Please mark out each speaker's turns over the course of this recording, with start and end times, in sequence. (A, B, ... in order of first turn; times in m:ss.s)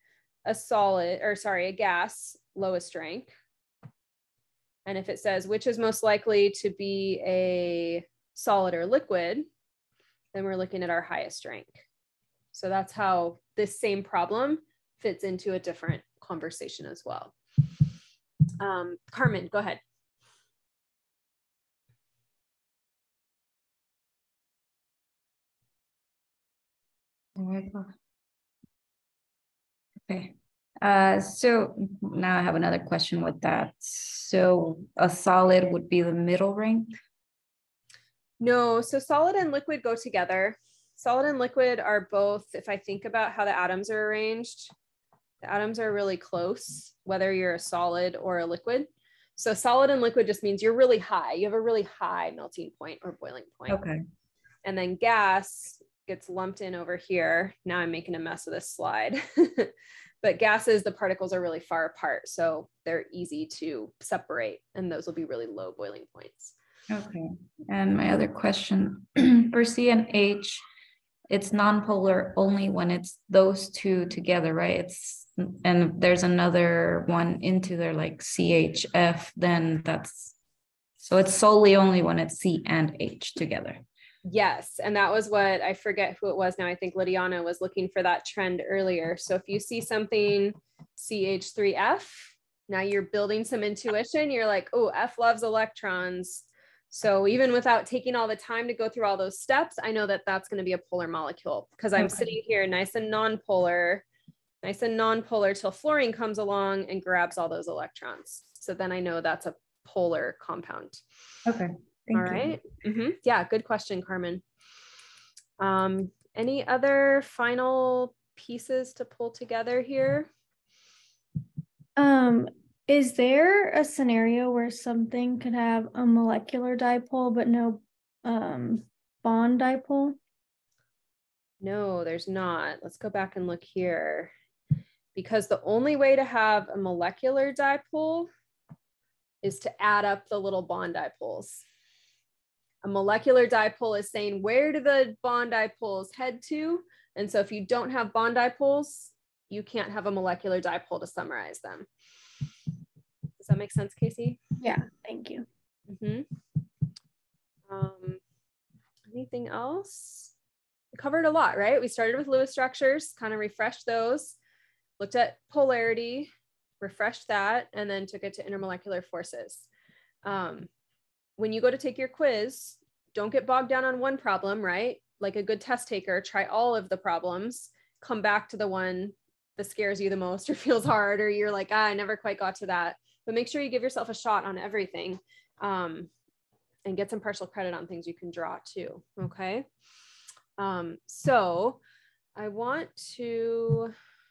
0:00.4-0:03.3 A
0:04.9-0:09.5 A
0:10.3-0:11.8 A
0:12.5-0:17.3 A
0:18.6-0:19.8 A
0:27.4-0:27.9 B
0:30.1-0:36.9 B
0:38.4-0:44.7 A
0:45.4-0:53.8 A
0:53.7-0:54.0 B
0:54.6-0:59.7 A
1:00.2-1:06.5 A
1:06.9-1:10.6 B
1:11.3-1:20.4 B
1:21.0-1:23.8 B
1:24.2-1:44.0 A
1:42.0-1:42.4 B
1:44.6-1:51.0 A
1:51.4-1:52.6 B
1:52.1-1:54.4 A
1:55.6-2:00.3 A
2:02.0-2:10.2 C
2:11.6-2:14.3 A
2:15.2-2:18.3 A
2:19.4-2:21.6 A
2:22.8-2:31.9 A
2:33.4-2:34.4 A
2:34.6-2:35.4 C
2:35.9-2:36.2 A
2:37.7-2:38.2 A
2:39.1-2:40.3 A
2:40.9-2:44.4 A
2:45.0-2:49.7 A
2:50.2-2:50.7 A
2:51.4-3:06.1 A
3:06.9-3:09.7 A
3:10.6-3:11.8 A
3:12.4-3:13.9 A